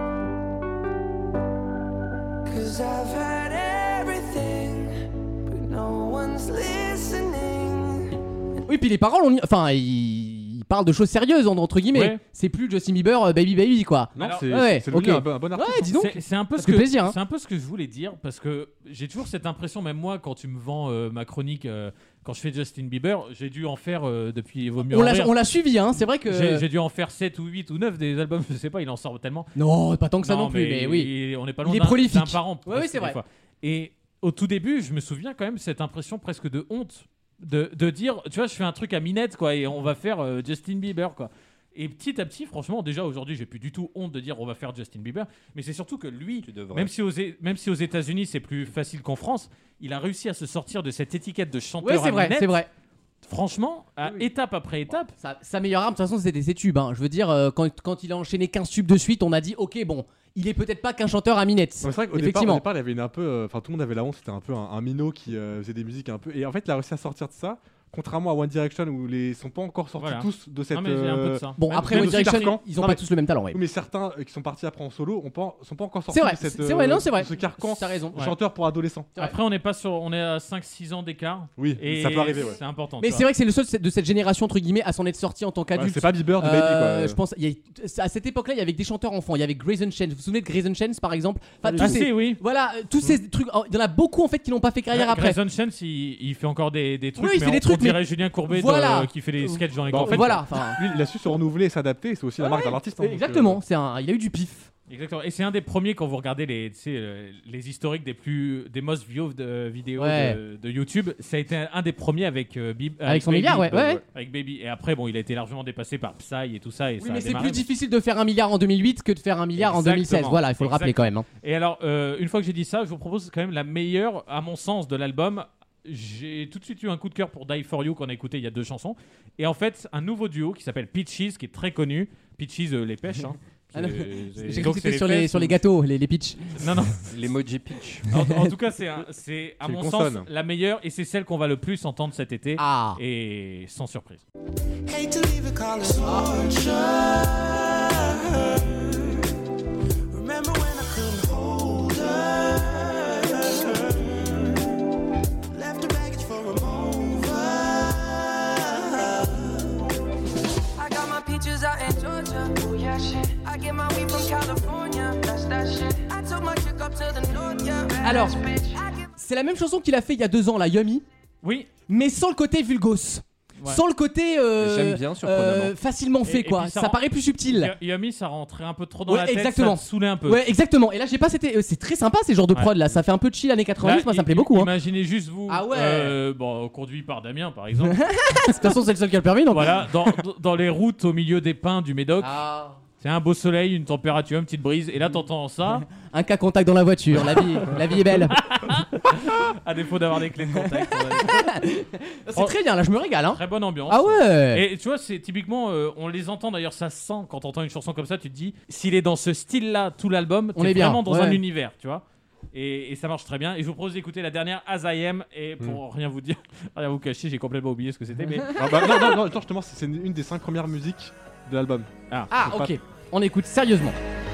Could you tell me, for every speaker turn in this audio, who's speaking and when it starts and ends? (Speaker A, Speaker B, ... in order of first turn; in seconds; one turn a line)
Speaker A: 2.5-8.1
Speaker B: 8.7-17.1
Speaker C: 11.9-12.2
Speaker D: 14.2-15.9
Speaker C: 14.2-14.5
Speaker C: 15.9-25.3
Speaker B: 24.9-26.6
Speaker C: 26.3-29.5
Speaker B: 29.6-31.1
Speaker C: 30.2-52.6
Speaker B: 31.6-33.2
Speaker E: 46.4-46.9
Speaker B: 51.8-52.7
Speaker C: 53.2-55.1
Speaker B: 55.2-62.6
Speaker D: 61.8-79.1
Speaker C: 70.0-72.5
Speaker B: 71.6-73.6
Speaker B: 76.1-78.2
Speaker C: 79.2-83.3
Speaker D: 81.6-82.6
Speaker B: 83.0-95.4
Speaker D: 85.7-87.2
Speaker C: 91.8-92.4
Speaker C: 94.9-100.4
Speaker B: 97.2-100.8
Speaker D: 99.9-103.6
Speaker B: 102.4-104.7
Speaker C: 104.9-117.7
Speaker B: 110.0-110.4
Speaker B: 113.0-114.0
Speaker B: 117.0-121.2
Speaker C: 119.6-135.6
Speaker B: 133.7-136.4
Speaker C: 136.6-137.1
Speaker E: 137.1-138.1
Speaker C: 138.1-144.2
Speaker D: 139.6-140.2
Speaker B: 142.6-143.0
Speaker A: 144.9-149.2
Speaker A: 150.1-154.7
Speaker A: 155.5-159.7
Speaker A: 160.8-169.1
Speaker B: 168.0-168.4
Speaker B: 169.2-171.0
Speaker C: 171.4-171.7
Speaker B: 171.9-177.7
Speaker E: 174.6-175.7
Speaker C: 176.2-180.5
Speaker B: 179.1-184.7
Speaker C: 183.8-188.0
Speaker B: 185.5-186.1
Speaker B: 187.8-189.8
Speaker C: 189.5-192.3
Speaker B: 192.2-192.8
Speaker C: 193.0-195.9
Speaker B: 195.9-198.4
Speaker C: 198.3-201.5
Speaker B: 201.2-204.6
Speaker C: 203.2-218.6
Speaker B: 210.6-211.4
Speaker D: 218.5-222.8
Speaker B: 222.3-223.9